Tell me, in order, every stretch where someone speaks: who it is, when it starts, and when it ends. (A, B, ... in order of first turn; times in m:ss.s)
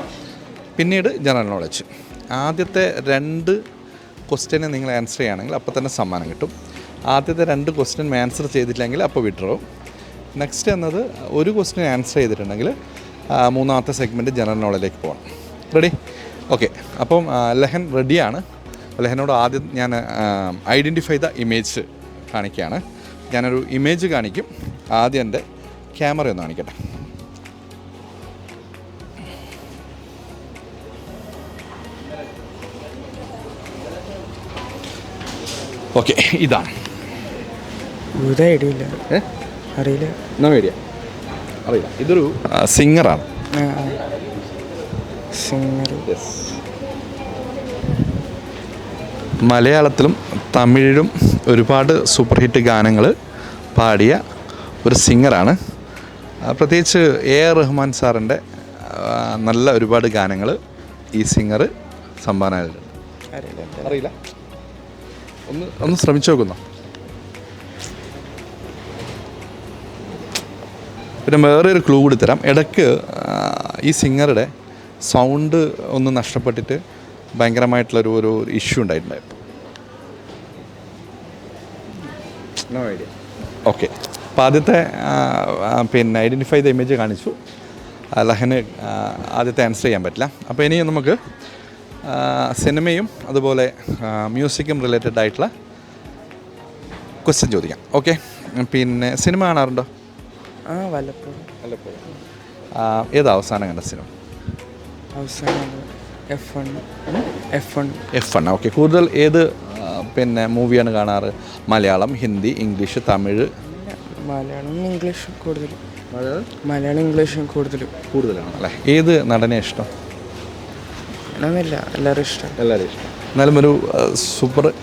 0:00.8-0:01.8 A
0:02.4-0:03.5 A
0:04.3-0:06.4 A
0:07.1-0:09.6 A
0:10.6-0:12.6 A
0:13.4-0:15.0 A
0:16.5-0:18.4 A
0:19.1-0:21.8 A
0:22.3-0:22.7 A
0:23.3-0:24.3 A
0:25.0-0:25.4 A
0:26.0-0:26.6 A
0:36.0-0:36.5 A
0:38.2-0:39.0 B
0:39.8-0:40.2 B
0:40.4-0:40.8 A
0:41.9-0:43.1 A
0:43.6-0:44.0 B
0:45.3-0:46.0 B
0:49.6-0:50.2 A
0:50.7-0:53.1 A
0:53.8-0:54.2 A
0:54.8-0:55.5 A
0:56.5-1:00.5 A
1:01.2-1:01.6 A
1:02.2-1:02.8 A
1:03.3-1:04.0 B
1:05.5-1:06.6 A
1:11.3-1:14.3 A
1:15.1-1:16.7 A
1:17.4-1:19.2 A
1:24.4-1:27.3 A
1:28.2-1:31.2 A
1:32.1-1:35.5 A
1:37.3-1:39.8 A
1:40.7-1:41.5 B
1:42.8-1:44.0 A
1:45.2-1:47.0 B
1:47.6-1:48.0 B
1:48.2-1:53.2 A
1:53.6-1:55.8 B
1:56.7-1:57.9 B
1:58.6-1:59.8 A
2:01.4-2:02.5 B
2:02.9-2:04.6 A